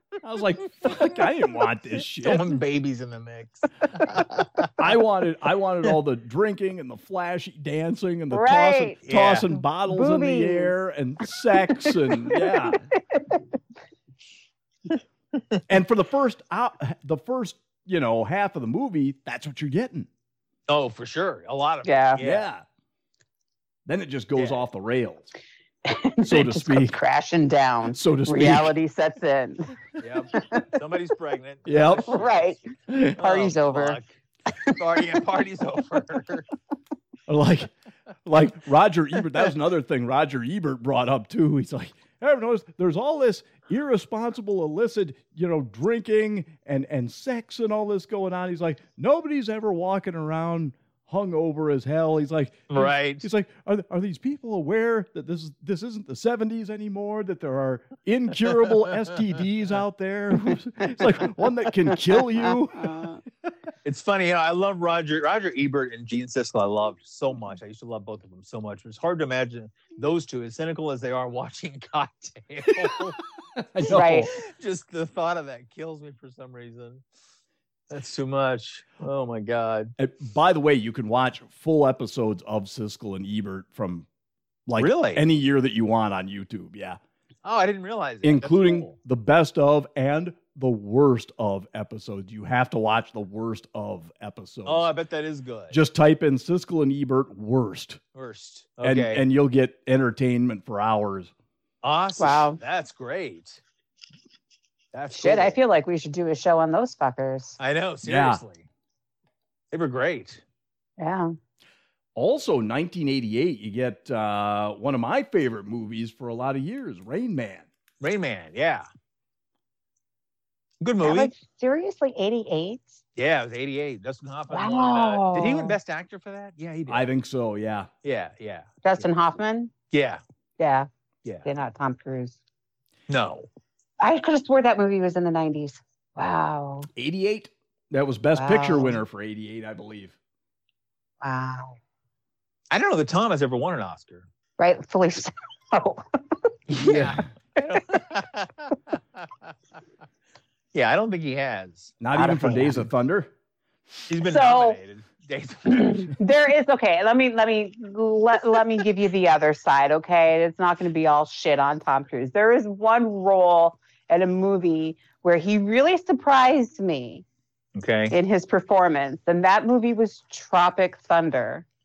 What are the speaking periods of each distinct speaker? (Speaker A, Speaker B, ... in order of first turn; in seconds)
Speaker A: 0.2-2.5, 4.8-12.8, 15.7-20.1, 22.2-22.6, 23.9-25.3, 26.2-26.9, 27.9-28.7, 31.6-32.1, 32.9-33.2, 37.3-37.7, 38.2-63.5, 72.7-73.0, 73.5-74.3, 80.0-84.1, 84.7-87.0, 88.2-94.9, 95.7-98.0, 98.8-101.3, 108.0-108.4, 112.2-117.7, 126.9-127.9, 136.9-140.1, 152.0-153.3
Speaker B: 2.2-4.7, 9.1-9.4, 20.7-22.5, 30.0-32.5, 33.2-34.1, 34.7-36.5, 52.7-53.2, 63.8-73.2, 73.9-77.0, 77.9-79.9, 84.8-85.2, 87.4-88.9, 94.7-95.8, 98.1-99.2, 101.8-103.6, 104.9-105.6, 107.6-108.7, 109.7-110.4, 118.0-118.8, 120.8-121.3, 123.2-127.1, 128.0-128.8, 129.9-130.2, 133.1-133.5, 142.7-144.2, 146.7-149.0, 150.7-152.0, 154.1-156.2, 167.7-168.1
Speaker C: 8.3-9.0, 9.8-10.7, 11.8-13.4, 21.8-22.2, 25.9-29.7, 30.3-30.7, 32.1-32.6, 33.2-34.0, 73.9-74.3, 102.2-102.6, 105.1-107.6, 111.0-111.3, 121.0-123.0, 124.5-125.8, 128.8-129.7, 130.6-130.9, 131.4-132.4, 134.0-136.9, 138.3-139.0, 141.2-141.8, 144.6-147.1, 152.1-152.8, 154.2-154.8, 155.7-167.2, 168.1-171.6